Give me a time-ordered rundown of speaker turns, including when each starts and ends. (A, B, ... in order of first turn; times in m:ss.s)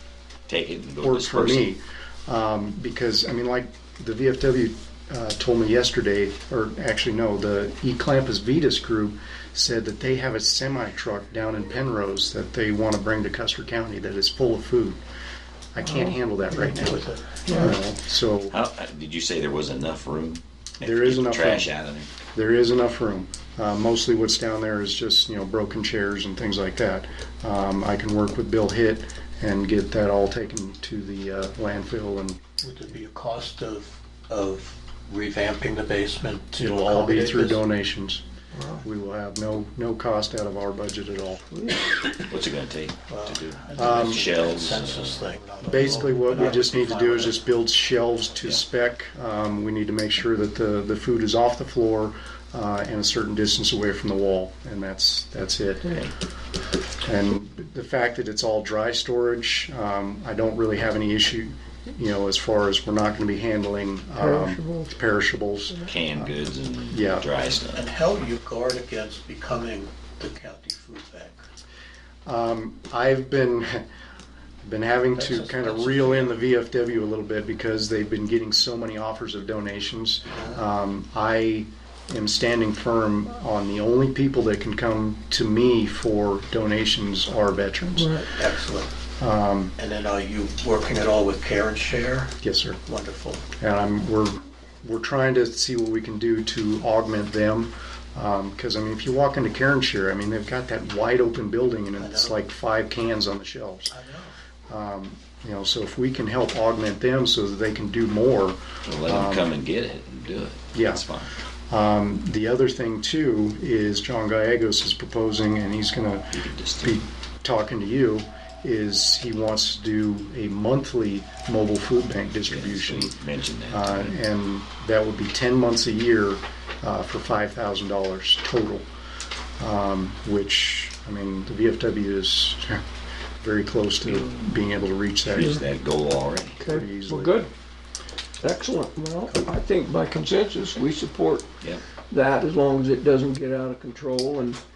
0:00.5-0:01.6 A
0:01.0-0:15.0 B
0:15.7-0:18.5 B
0:15.8-0:16.2 C
0:16.5-0:17.6 D
0:17.4-0:17.8 C
0:18.5-0:22.1 A
0:20.8-0:21.7 B
0:22.3-0:32.4 B
0:32.6-0:37.6 D
0:36.6-0:38.2 B
0:38.5-0:38.8 C
0:38.8-0:41.6 B
0:42.2-0:45.3 A
0:43.1-0:47.5 D
0:43.8-0:44.3 B
0:45.6-0:56.0 B
0:57.0-1:06.3 B
1:04.2-1:04.9 C
1:05.8-1:07.8 A
1:06.9-1:07.3 B
1:07.5-1:11.4 D
1:12.2-1:13.8 B
1:14.6-1:28.2 B
1:15.1-1:16.4 D
1:20.3-1:20.6 D
1:28.0-1:28.3 C
1:28.3-1:28.9 D
1:29.2-1:29.8 B
1:29.8-1:33.4 D
1:32.4-1:32.8 B
1:33.6-1:43.9 B
1:42.0-1:42.4 D
1:43.9-1:44.3 D
1:44.7-1:49.5 B
1:48.8-1:51.3 A
1:50.7-1:51.0 B
1:51.7-2:03.1 B
1:56.3-1:56.9 A
2:02.5-2:04.1 A
2:03.7-2:08.8 B
2:09.6-2:12.8 B
2:13.4-2:15.6 B
2:15.3-2:16.6 A
2:16.6-2:17.5 C
2:16.7-2:17.4 B
2:18.4-2:24.6 C